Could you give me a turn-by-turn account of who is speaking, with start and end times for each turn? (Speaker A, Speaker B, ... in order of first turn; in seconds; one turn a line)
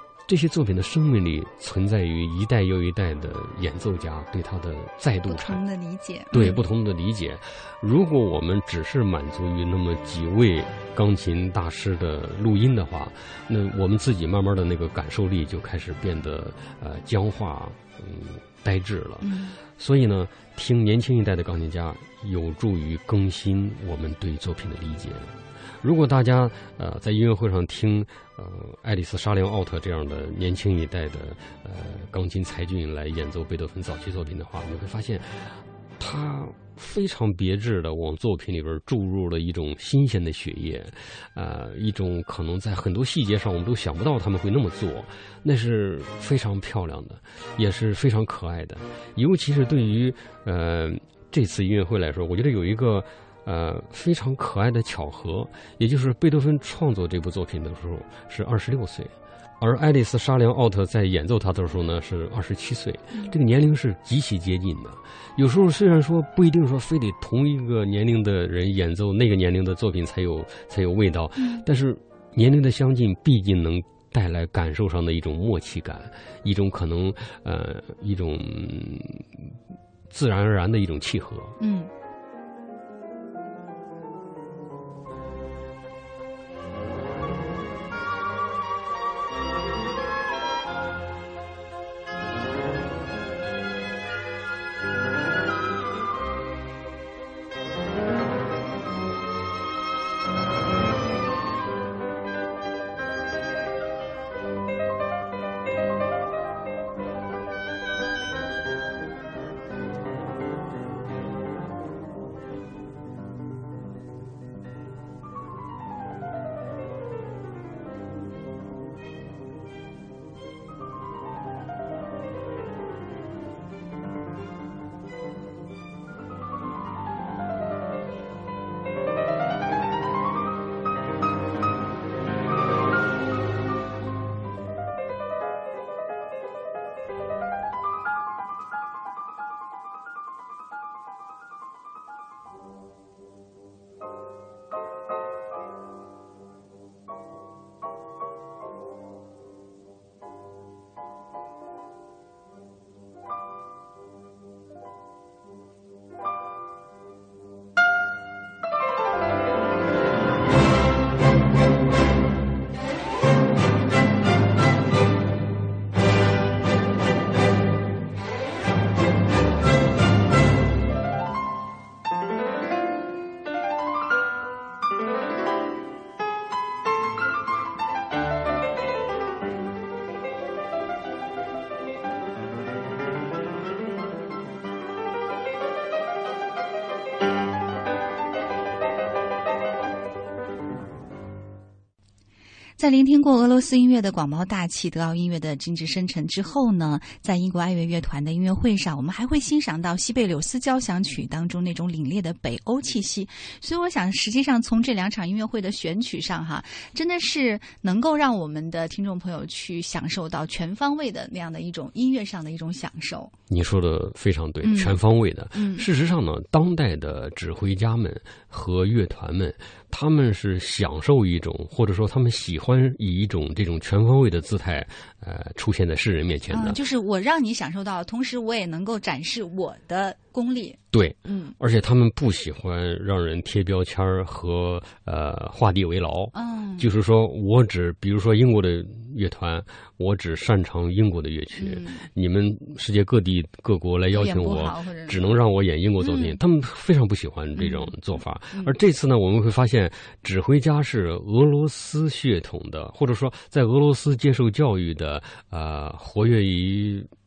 Speaker A: 0.3-5.6
Speaker B: 5.3-6.6
Speaker A: 6.3-79.6
Speaker B: 19.2-19.6
Speaker B: 71.4-71.6
Speaker A: 80.1-81.5
Speaker B: 81.6-81.9
Speaker B: 192.8-213.3
Speaker A: 213.5-226.8
Speaker B: 214.6-215.0
Speaker B: 215.5-215.8
Speaker B: 226.5-231.5
Speaker A: 230.9-257.1
Speaker B: 236.3-236.9
Speaker B: 241.6-242.1
Speaker B: 244.1-245.2
Speaker B: 246.0-246.4
Speaker B: 247.6-247.9